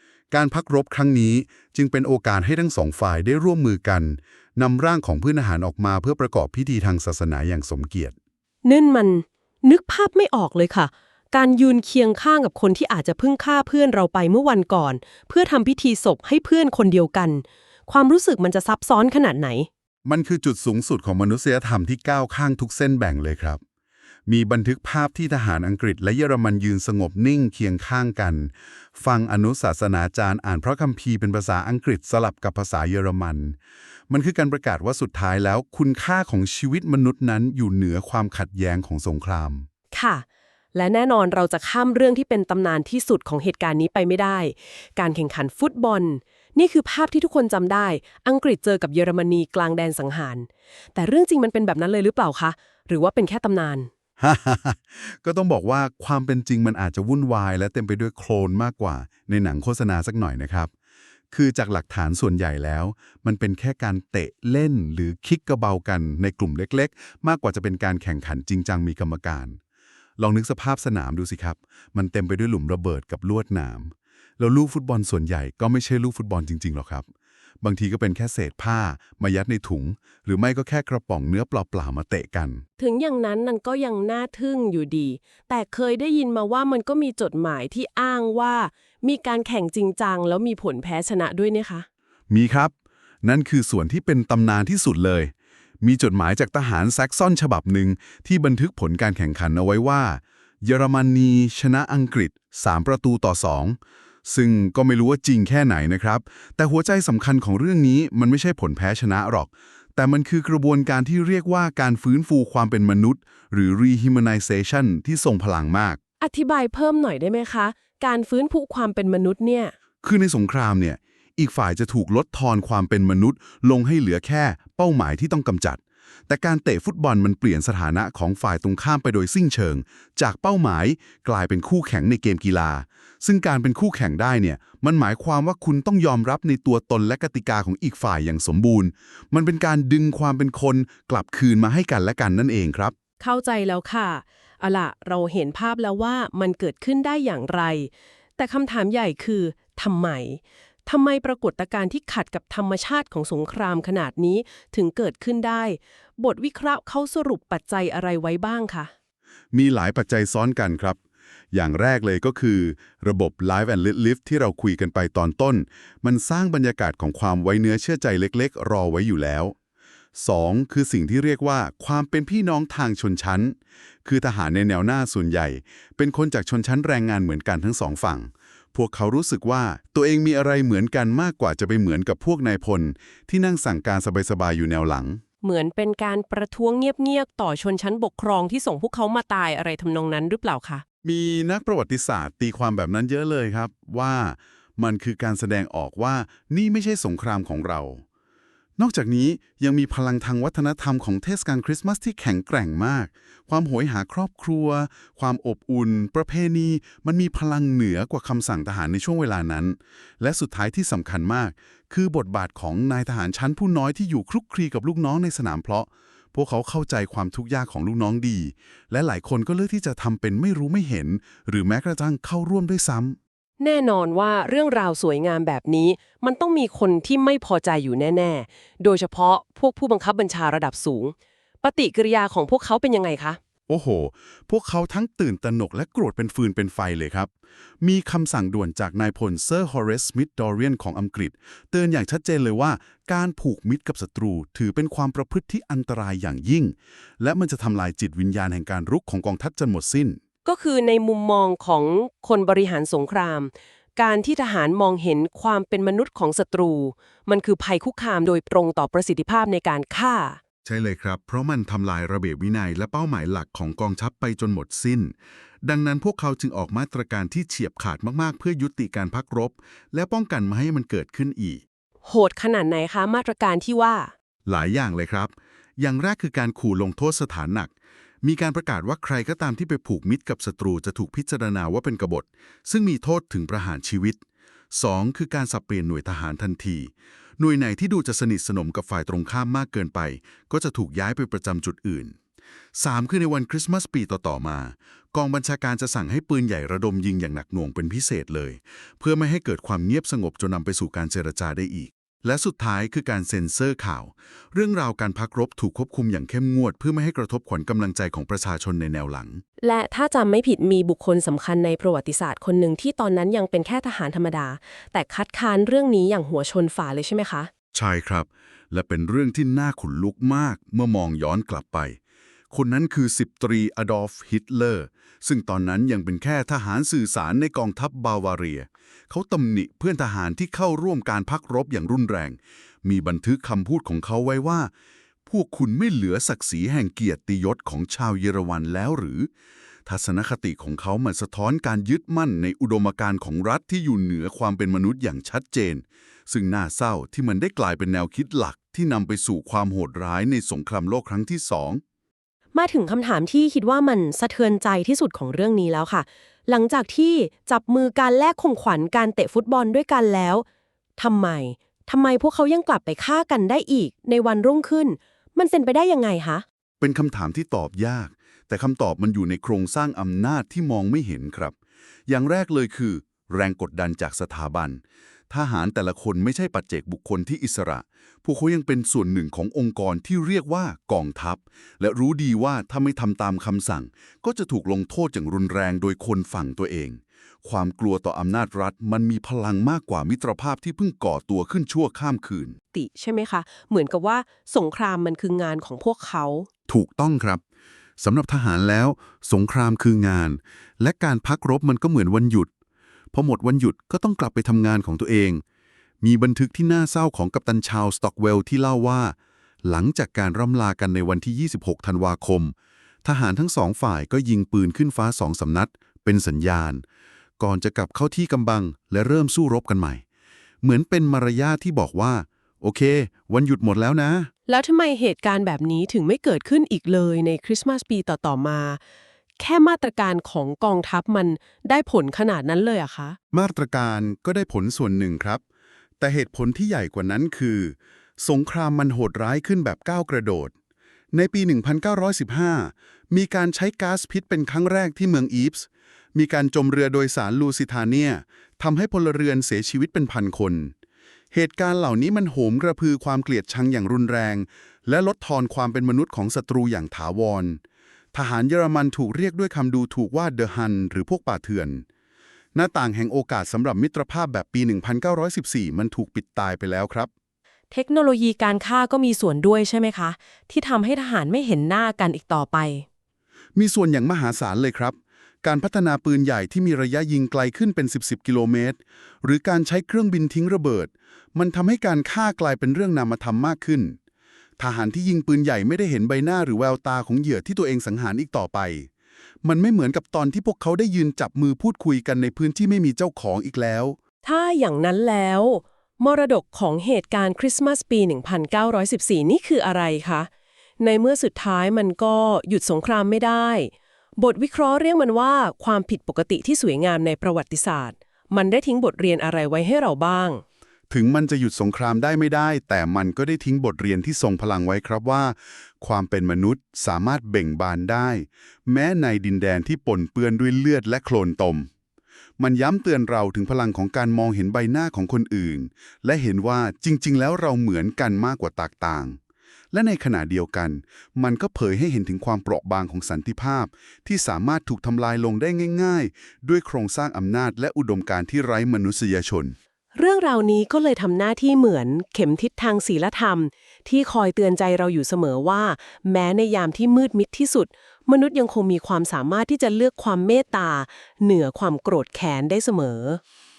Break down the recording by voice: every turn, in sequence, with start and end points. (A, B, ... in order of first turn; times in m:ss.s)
0:00.3-0:08.1 A
0:08.6-0:19.7 B
0:20.0-0:23.6 A
0:24.3-0:33.6 A
0:34.1-0:39.7 A
0:39.9-0:53.9 B
0:54.2-1:00.7 A
1:01.3-1:09.6 A
1:10.2-1:17.0 A
1:17.6-1:22.6 A
1:22.8-1:31.9 B
1:32.3-1:56.0 A
1:56.2-1:59.7 B
2:00.0-2:22.9 A
2:23.2-2:38.9 B
2:39.5-2:41.0 A
2:41.5-2:49.5 A
2:50.1-3:05.2 A
3:05.4-3:10.8 B
3:11.0-3:18.0 A
3:18.8-3:43.2 A
3:43.6-3:53.4 B
3:53.7-4:10.2 A
4:10.4-4:20.4 B
4:20.6-4:31.6 A
4:32.0-4:34.1 B
4:34.4-4:52.2 A
4:52.7-5:09.4 A
5:09.6-5:17.5 B
5:17.7-5:22.0 A
5:22.5-5:34.7 A
5:35.2-5:39.3 A
5:39.8-5:51.8 A
5:52.5-6:00.4 B
6:01.0-6:06.4 B
6:06.8-6:11.5 A
6:12.1-6:32.6 A
6:32.7-6:36.5 B
6:36.7-6:37.4 A
6:38.0-6:42.5 A
6:43.1-6:45.4 A
6:46.0-6:56.8 A
6:57.4-7:00.0 A
7:00.6-7:04.3 A
7:04.5-7:08.8 B
7:09.4-7:13.2 B
7:13.3-7:15.4 A
7:16.0-7:20.5 A
7:21.1-7:30.7 A
7:31.3-7:37.6 A
7:38.1-7:41.8 A
7:42.5-7:47.1 A
7:47.7-7:52.8 B
7:53.6-8:04.0 A
8:04.6-8:08.9 A
8:09.4-8:14.0 A
8:14.2-8:20.3 B
8:20.8-8:30.4 B
8:30.9-8:41.7 A
8:42.4-8:49.2 A
8:49.7-8:59.6 A
9:00.0-9:13.2 B